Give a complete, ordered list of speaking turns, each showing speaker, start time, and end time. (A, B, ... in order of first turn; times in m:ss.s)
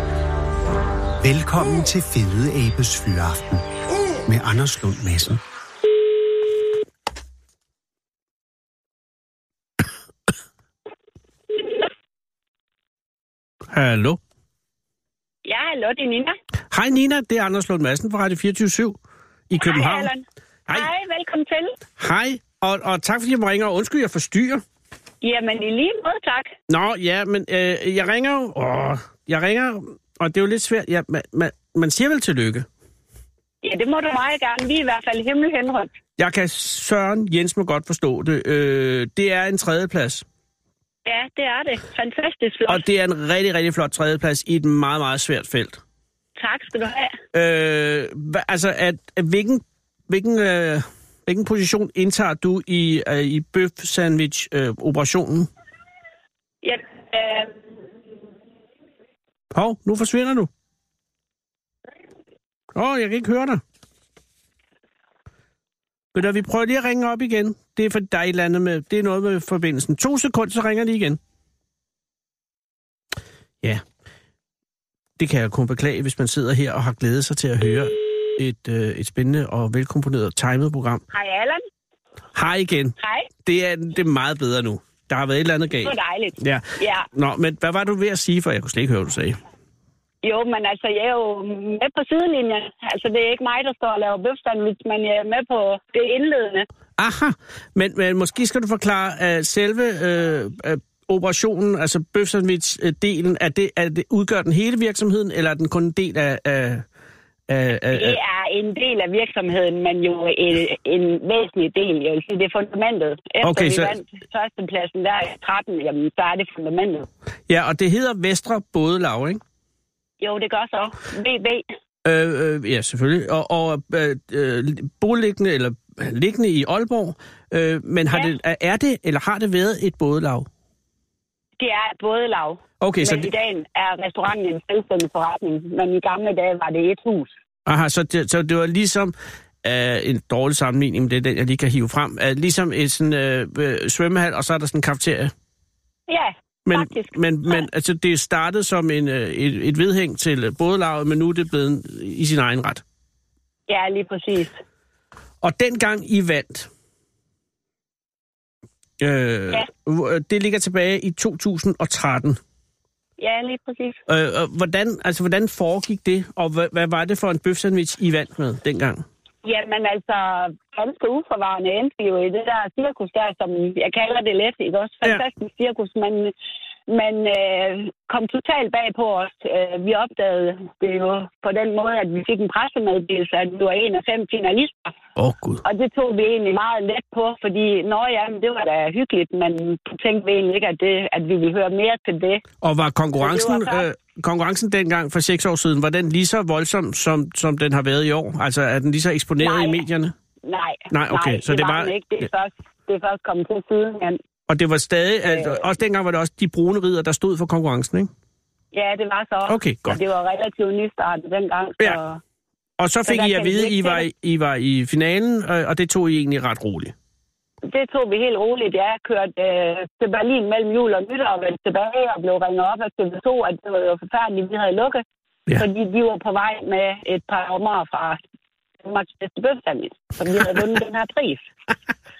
0:01.2-0:03.7 A
0:04.2-0:05.4 A
0:13.7-0:14.2 B
0:15.4-0:16.4 C
0:16.7-0:19.0 B
0:19.5-0:20.1 B
0:19.6-0:21.8 C
0:22.0-0:24.6 B
0:25.2-0:26.5 C
0:26.7-0:32.7 B
0:33.6-0:35.9 C
0:36.2-0:40.2 B
0:41.1-0:42.8 C
0:42.7-0:45.8 B
0:46.4-0:47.2 C
0:47.3-0:55.5 B
0:56.6-0:57.6 C
0:59.5-1:00.5 B
1:02.7-1:03.6 B
1:06.2-1:11.2 B
1:15.2-1:21.0 B
1:21.1-1:21.6 C
1:22.4-1:29.4 B
1:23.0-1:23.3 C
1:25.8-1:27.1 C
1:30.2-1:36.7 C
1:37.0-1:46.8 B
1:47.5-1:48.2 B
1:47.9-1:57.1 C
1:53.4-1:54.0 B
1:57.5-1:59.4 B
2:00.2-2:01.7 C
2:02.0-2:10.5 B
2:11.6-2:17.3 C
2:12.8-2:13.3 B
2:17.7-2:25.3 B
2:26.1-2:27.6 C
2:26.7-2:32.8 B
2:33.7-2:34.6 C
2:35.4-2:36.7 B
2:39.0-2:42.4 B
2:43.2-2:44.0 C
2:44.1-2:49.0 B
2:49.4-2:56.3 C
2:56.9-3:04.9 C
3:05.2-3:05.6 B
3:05.6-3:12.4 C
3:12.6-3:20.1 B
3:13.2-3:13.9 C
3:19.4-3:19.8 C
3:20.4-3:24.2 C
3:20.9-3:21.9 B
3:24.5-3:28.1 B
3:25.3-3:25.7 C
3:28.7-3:32.2 C
3:29.5-3:30.0 B
3:32.8-3:36.9 B
3:33.1-3:34.1 C
3:37.6-3:45.0 C
3:45.6-3:48.2 C
3:48.8-3:51.4 C